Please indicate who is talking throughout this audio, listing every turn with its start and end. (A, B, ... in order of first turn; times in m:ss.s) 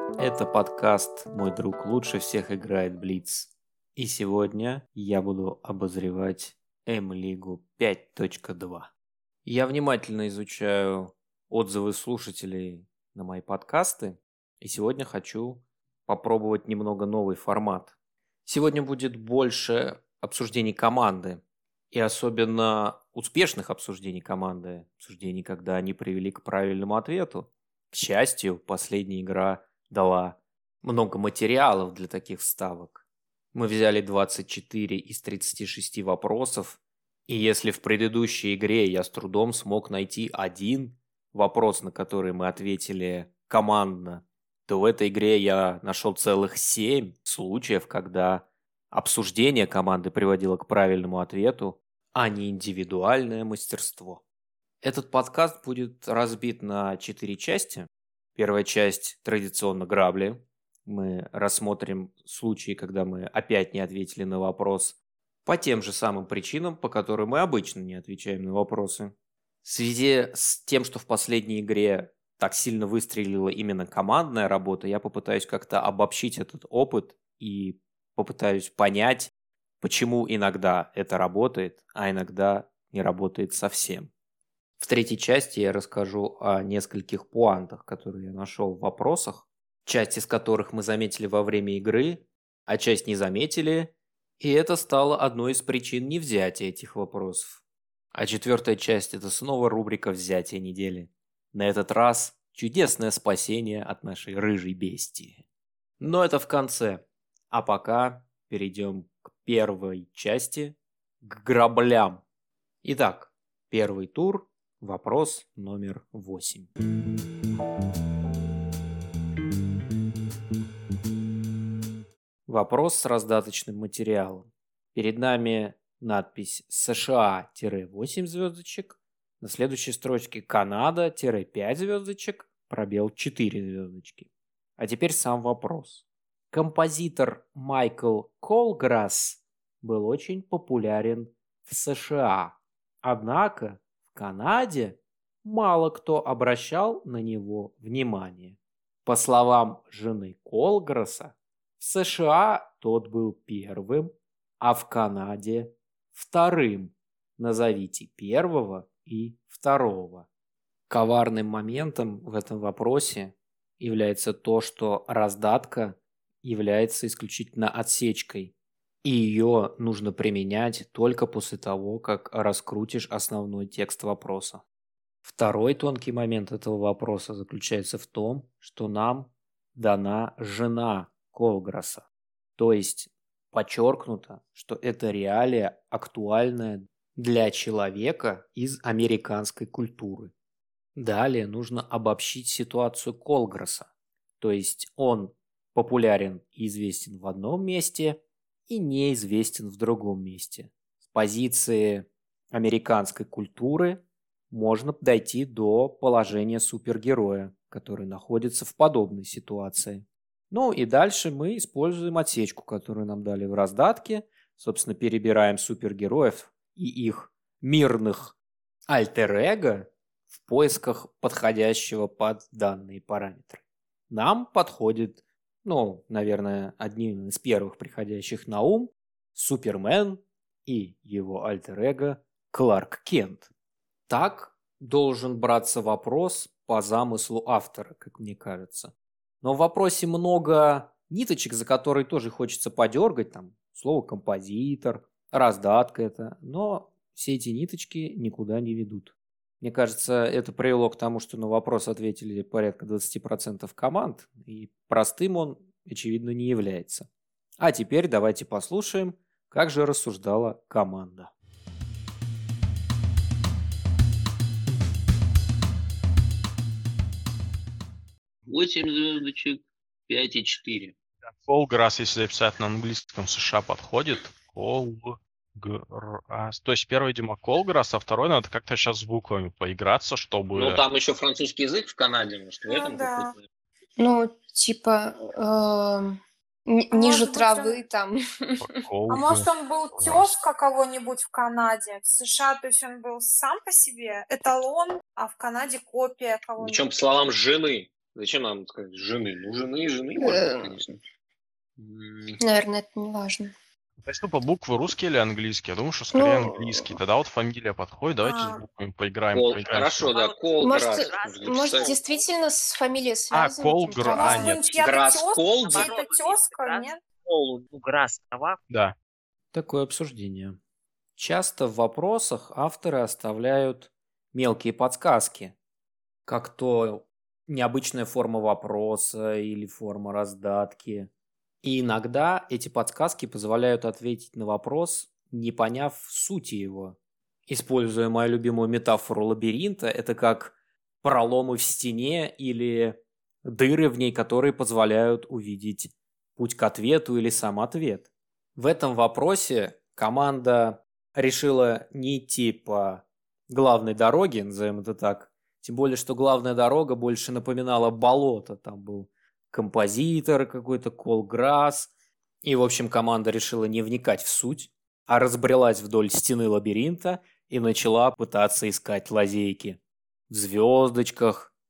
0:00.2-0:08.9 A
0:09.4-0:17.9 A
0:18.5-0:21.4 A
0:21.9-0:33.0 A
0:33.5-0:54.2 A
0:54.8-1:09.1 A
1:09.6-1:19.3 A
1:19.8-1:24.1 A
1:24.8-1:37.6 A
1:38.1-1:45.4 A
1:46.0-1:52.2 A
1:52.8-1:56.7 A
2:02.5-2:14.3 A
2:14.8-2:40.3 A
2:40.9-2:48.5 A
2:49.0-2:54.6 A
2:55.2-3:02.0 A
3:02.6-3:10.3 A
3:11.0-3:13.9 A
3:14.4-3:38.4 A
3:38.9-3:53.5 A
3:54.1-4:17.1 A
4:17.6-4:21.3 A
4:28.5-4:30.9 B
4:31.3-4:40.8 C
4:40.6-4:43.4 B
4:42.7-4:43.3 D
4:44.0-4:48.8 E
4:46.9-4:47.8 D
4:48.6-4:50.3 C
4:49.1-4:56.9 D
4:56.6-5:01.0 B
5:00.2-5:00.8 E
5:01.8-5:02.4 B
5:02.4-5:03.5 E
5:04.0-5:10.1 C
5:06.1-5:07.0 E
5:08.2-5:08.6 D
5:09.3-5:12.0 B
5:10.1-5:12.2 F
5:10.6-5:14.8 E
5:13.3-5:14.7 C
5:14.1-5:17.0 D
5:14.8-5:16.0 B
5:15.6-5:18.6 F
5:18.7-5:19.0 C
5:19.5-5:20.6 A
5:21.2-5:25.6 A
5:26.3-5:31.1 A
5:31.6-6:01.9 A
6:02.4-6:11.5 A